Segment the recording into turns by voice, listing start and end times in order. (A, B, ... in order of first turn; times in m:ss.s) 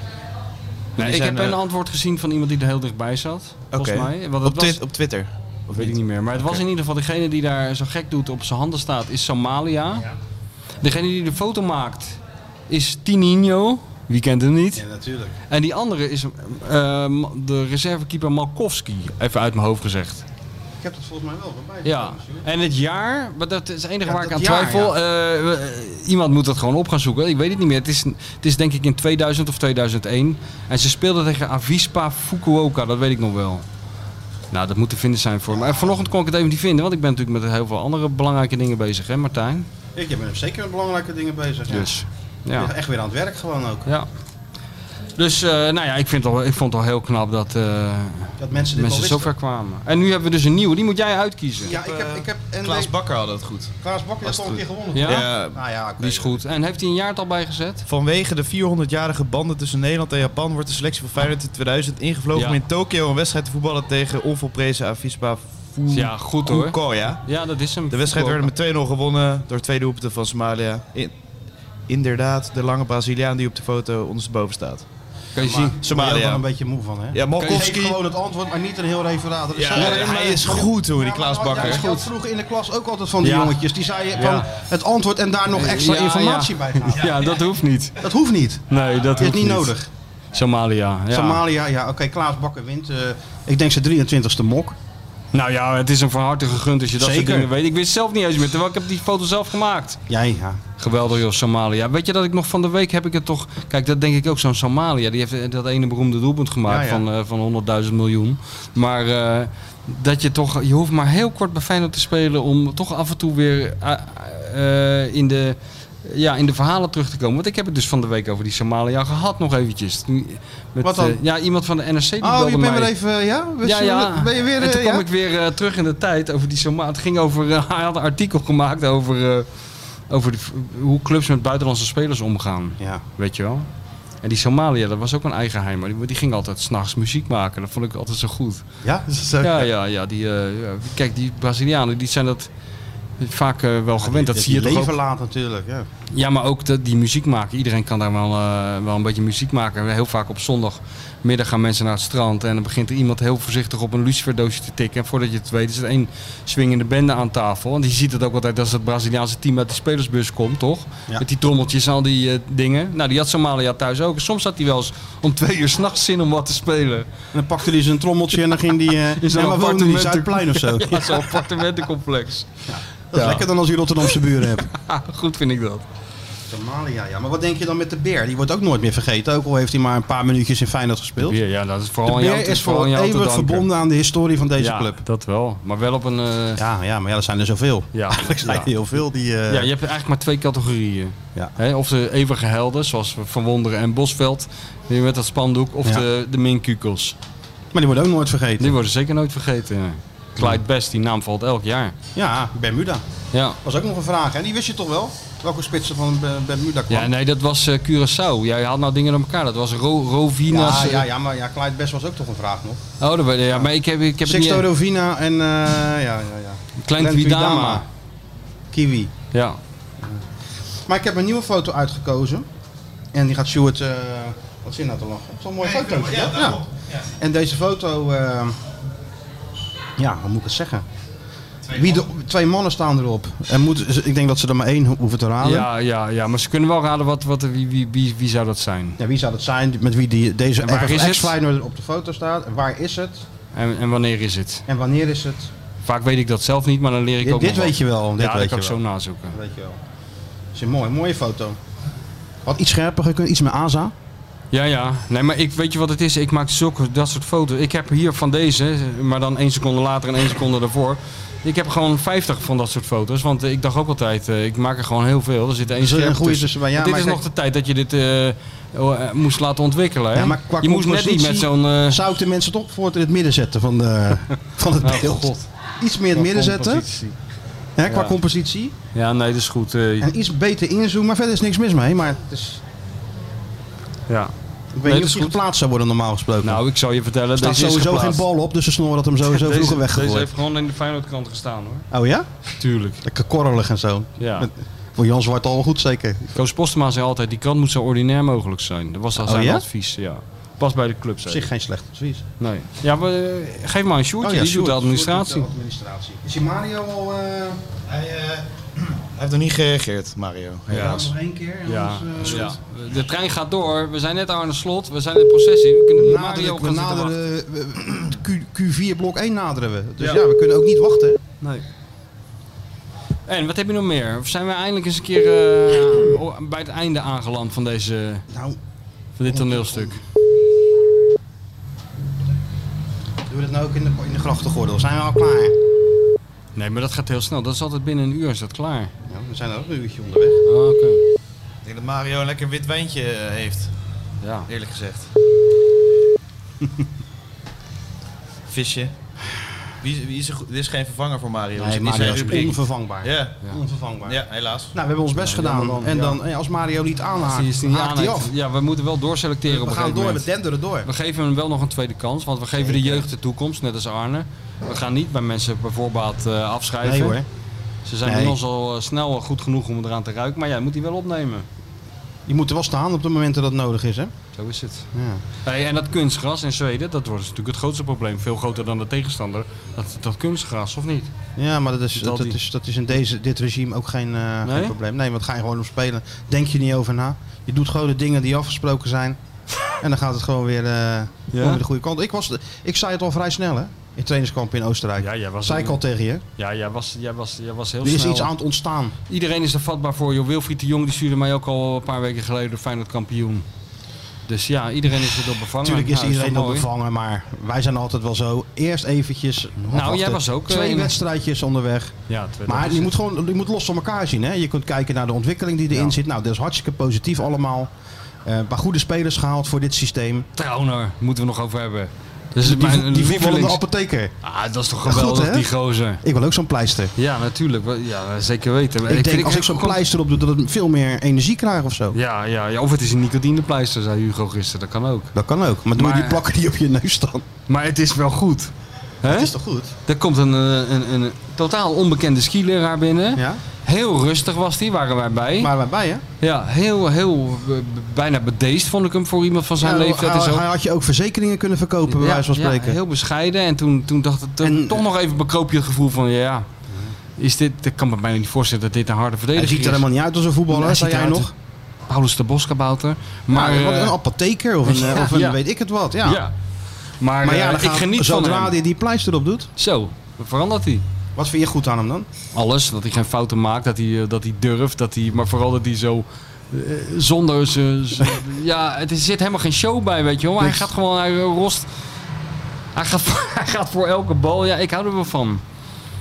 0:01.0-0:04.8 A
0:01.0-0:01.6 B
0:03.7-0:06.6 B
0:05.7-0:10.1 A
0:10.8-0:12.2 A
0:12.7-0:14.8 A
0:14.8-0:15.4 C
0:15.5-0:20.2 A
0:20.8-0:22.5 C
0:21.8-0:33.6 A
0:24.0-0:25.0 C
0:34.5-0:39.7 A
0:40.0-0:42.0 C
0:41.7-0:42.7 A
0:42.6-0:43.9 C
0:45.2-0:51.8 A
0:48.4-0:49.3 C
0:51.6-0:52.9 C
0:51.7-0:55.6 B
0:53.8-0:56.4 C
0:54.9-0:55.3 A
0:56.0-0:57.8 A
0:57.9-1:07.2 B
1:05.9-1:08.5 A
1:07.9-1:11.1 B
1:11.9-1:14.8 B
1:15.4-1:15.8 A
1:15.4-1:27.3 C
1:15.8-1:16.4 B
1:17.1-1:18.0 B
1:17.4-1:17.7 A
1:19.6-1:22.0 B
1:19.7-1:20.4 A
1:21.6-1:21.9 A
1:23.2-1:23.6 A
1:24.2-1:24.5 A
1:25.5-1:28.0 A
1:27.0-1:27.4 B
1:28.0-1:29.9 C
1:28.7-1:29.7 A
1:30.4-1:31.4 A
1:31.1-1:34.8 C
1:35.3-1:40.0 A
1:37.0-1:37.5 C
1:40.1-1:40.6 C
1:40.8-2:02.9 A
1:46.7-1:47.0 C
2:00.8-2:01.2 C
2:02.2-2:05.1 C
2:03.6-2:09.5 A
2:10.1-2:13.7 A
2:14.2-2:18.6 A
2:18.8-2:19.7 C
2:19.4-2:22.5 A
2:23.2-2:25.0 A
2:24.0-2:25.9 C
2:26.1-2:47.1 A
2:47.3-2:51.7 C
2:49.2-2:52.5 A
2:52.7-2:54.7 C
2:53.1-2:53.4 A
2:54.7-2:55.8 A
2:56.5-3:01.4 C
3:01.2-3:03.7 A
3:02.0-3:05.0 C
3:04.6-3:06.6 A
3:06.6-3:09.7 C
3:07.9-3:08.7 A
3:09.5-3:17.2 A
3:17.7-3:18.7 C
3:18.6-3:22.0 A
3:22.2-3:23.0 C
3:23.3-3:23.6 A
3:23.6-3:27.1 C
3:26.9-3:31.1 A
3:30.5-3:32.8 C
3:33.0-3:34.6 A
3:34.2-3:37.8 C
3:36.8-3:37.8 A
3:38.7-3:39.1 C
3:39.3-3:39.6 A
3:40.9-3:42.5 C
3:43.1-3:46.6 C
3:45.7-3:47.0 B
3:47.2-3:48.6 C
3:50.0-3:50.8 C
3:51.7-3:52.0 B
3:51.7-3:55.7 C
3:55.4-3:59.0 A
3:59.0-4:03.2 C
4:00.6-4:01.4 A
4:03.5-4:04.6 A
4:04.7-4:05.5 C
4:05.8-4:09.4 A
4:07.2-4:08.8 C
4:09.3-4:09.8 C
4:10.5-4:11.6 C
4:12.4-4:13.9 C
4:14.5-4:32.0 A
4:25.8-4:27.2 C
4:30.1-4:36.9 C
4:34.8-4:35.5 A
4:36.1-4:37.2 A
4:37.8-4:38.8 C
4:37.9-4:38.2 A
4:39.0-4:40.1 A
4:40.0-4:42.6 C
4:44.7-4:46.6 C
4:44.8-4:45.4 A
4:46.4-4:48.2 A
4:47.4-4:50.3 C
4:49.3-4:51.9 A
4:51.9-4:52.3 C
4:52.6-4:53.0 A
4:53.0-4:56.4 C
4:54.2-4:54.5 A
4:56.3-5:01.5 A
4:59.2-4:59.6 C
5:01.3-5:02.2 C
5:02.4-5:05.5 A
5:04.2-5:07.6 C
5:07.9-5:11.0 B
5:10.7-5:12.6 C
5:10.7-5:11.1 A
5:11.7-5:17.2 A
5:16.0-5:21.2 C
5:23.3-5:28.2 A
5:28.3-5:28.6 C
5:29.2-5:30.0 A
5:29.3-5:30.0 C
5:33.3-5:35.6 C
5:36.6-5:38.9 A
5:39.1-5:40.4 C
5:40.5-5:41.0 A
5:41.6-5:43.7 B
5:44.2-5:44.5 A
5:44.5-5:45.1 B
5:48.5-5:48.9 B
5:49.8-5:53.4 B
5:51.6-5:54.2 C
5:52.0-5:52.5 A
5:54.1-5:54.7 B
5:54.7-5:58.3 C
5:55.2-5:56.2 A
5:57.2-6:00.3 A
5:59.5-6:00.9 C
6:00.8-6:07.2 A
6:02.6-6:03.0 C
6:06.8-6:07.3 C
6:07.9-6:11.5 A
6:08.0-6:08.4 C
6:12.3-6:14.1 C
6:14.4-6:14.9 A
6:14.9-6:15.2 C
6:15.4-6:21.1 A
6:21.4-6:29.2 C
6:22.0-6:22.4 A
6:24.4-6:24.8 A
6:29.8-6:36.2 C
6:31.3-6:31.6 A
6:35.0-6:35.8 A
6:36.4-6:38.3 A
6:37.8-6:39.0 C
6:39.1-6:43.4 A
6:44.3-6:46.7 A
6:45.6-6:57.7 C
6:49.7-6:51.0 A
6:52.1-6:52.9 A
6:58.2-7:00.3 C
7:00.4-7:03.6 A
7:02.4-7:04.1 C
7:04.2-7:06.0 A
7:04.8-7:05.5 C
7:06.0-7:06.9 C
7:07.0-7:09.8 A
7:08.9-7:12.0 C
7:11.9-7:15.1 A
7:15.2-7:17.2 C
7:15.8-7:16.2 A
7:17.5-7:18.5 A
7:19.0-7:19.3 A
7:19.0-7:19.7 C
7:19.9-7:25.5 A
7:23.2-7:23.4 C
7:25.4-7:26.0 C
7:26.2-7:30.4 A
7:29.6-7:32.8 C
7:31.9-7:36.5 A
7:34.4-7:34.8 C
7:36.7-7:36.9 C
7:37.2-7:39.8 A
7:39.4-7:41.3 C
7:40.5-7:41.3 A
7:41.9-7:44.0 A
7:43.3-7:46.2 C
7:44.7-7:45.4 A
7:46.0-7:46.3 A
7:47.0-7:48.6 A
7:47.2-7:49.5 C
7:49.6-7:50.8 A
7:51.2-7:52.1 C
7:52.3-8:01.7 A
8:00.4-8:00.7 C
8:02.8-8:05.4 A